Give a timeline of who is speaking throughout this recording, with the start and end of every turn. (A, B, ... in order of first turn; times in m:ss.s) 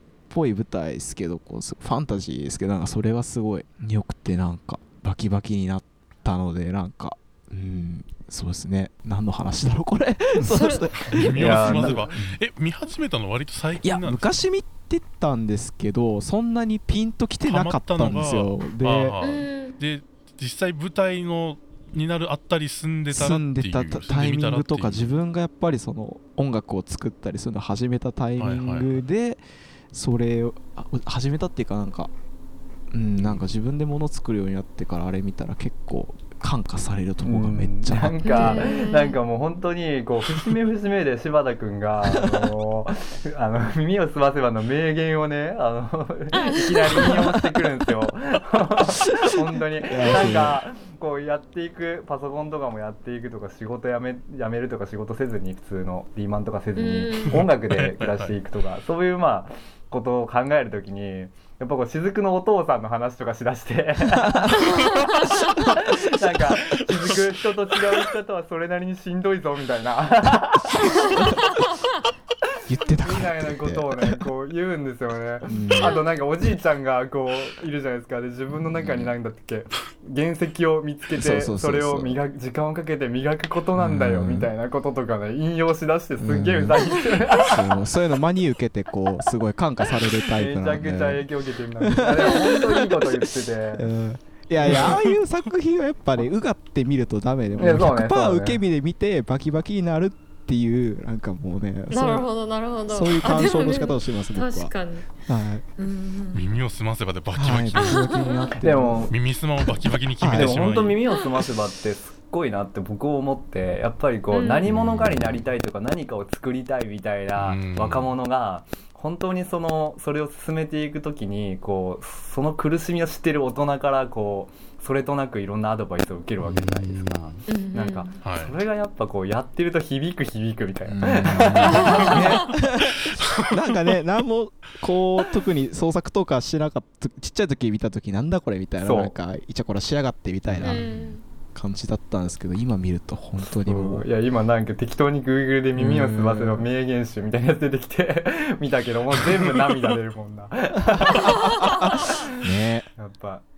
0:00.3-0:12.0 A
0:10.5-0:10.9 B
0:11.1-0:12.3 C
0:11.1-0:14.4 D
0:13.8-0:19.2 A
0:17.4-0:25.1 D
0:19.2-0:19.8 B
0:23.1-0:29.4 A
0:28.4-0:29.0 D
0:29.9-0:32.1 A
0:32.9-0:38.6 A
0:33.2-0:33.4 D
0:37.2-1:11.6 C
0:38.2-0:39.2 B
0:49.9-0:50.6 A
0:56.8-0:57.4 B
0:57.4-0:58.4 D
1:05.1-1:05.3 B
1:06.8-1:07.3 D
1:12.7-1:14.2 A
1:12.9-1:27.8 C
1:15.5-1:16.0 A
1:18.6-1:19.1 A
1:21.2-1:22.2 A
1:23.8-1:24.5 A
1:26.2-1:26.8 A
1:27.4-1:31.2 A
1:30.2-1:33.9 C
1:31.8-1:33.2 A
1:33.7-1:42.3 A
1:34.6-1:35.0 C
1:34.6-1:35.0 D
1:37.5-1:38.6 C
1:41.9-1:45.1 B
1:42.9-1:44.7 A
1:45.3-1:45.6 A
1:45.8-1:46.4 B
1:46.3-1:48.1 D
1:47.4-1:49.1 A
1:47.8-1:48.6 B
1:48.6-1:49.2 C
1:49.1-1:51.0 D
1:50.2-1:50.7 A
1:50.3-2:12.5 C
1:54.3-1:54.6 B
1:57.4-1:58.1 D
2:06.4-2:07.5 D
2:07.5-2:08.1 B
2:08.2-2:08.6 D
2:10.9-2:20.9 A
2:11.5-2:12.3 D
2:11.8-2:12.2 B
2:13.1-2:14.0 D
2:18.8-2:19.1 C
2:20.5-2:20.9 C
2:20.6-2:21.2 B
2:21.5-2:24.1 A
2:23.3-2:32.3 C
2:25.8-2:26.7 A
2:29.2-2:29.7 D
2:31.4-2:32.9 A
2:33.0-2:33.4 C